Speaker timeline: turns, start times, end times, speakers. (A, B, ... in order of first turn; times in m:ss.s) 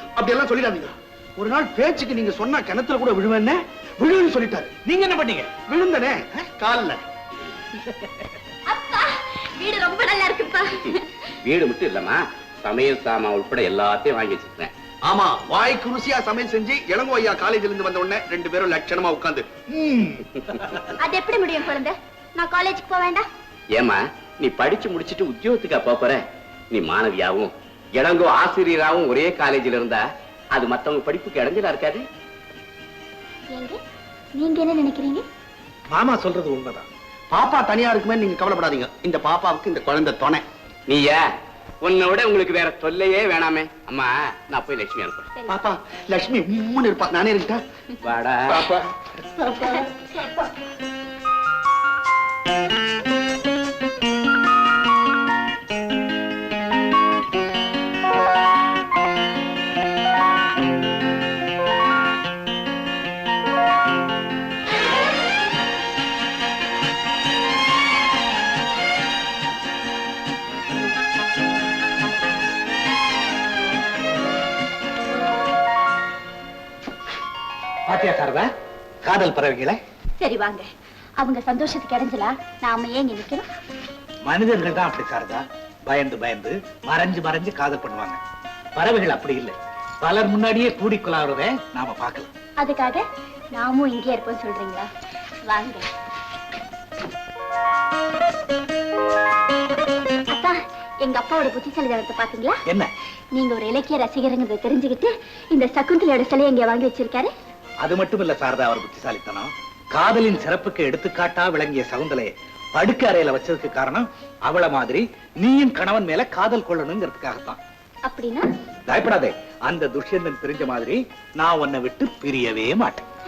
0:00.2-0:04.8 A
0:04.9-0:05.6 B
0:05.7-0:07.0 A
0:08.7-0:11.0 C
0:11.4-0:14.7 D
0:15.1-0:20.2 A
0:21.0-0:23.3 C
0:23.8-0:26.2 D
0:26.7-0:32.0 D
0:33.5-0:33.8 C
0:34.4-0:35.3 C
0:35.9-0:36.9 B
0:37.3-0:40.4 A
0:40.9-0:41.2 D
0:41.8-0:45.3 D
0:45.5-0:47.6 A
0:48.0-0:48.6 D
1:17.9-1:18.5 B
1:19.0-1:19.8 B
1:20.2-1:20.7 C
1:21.2-1:23.5 C
1:24.3-1:28.2 B
1:28.8-1:32.3 B
1:32.6-1:34.9 C
1:35.5-1:35.9 C
1:40.3-1:42.6 C
1:43.4-1:47.3 C
1:47.8-1:57.6 B
1:58.1-1:58.5 C
1:58.9-2:03.1 B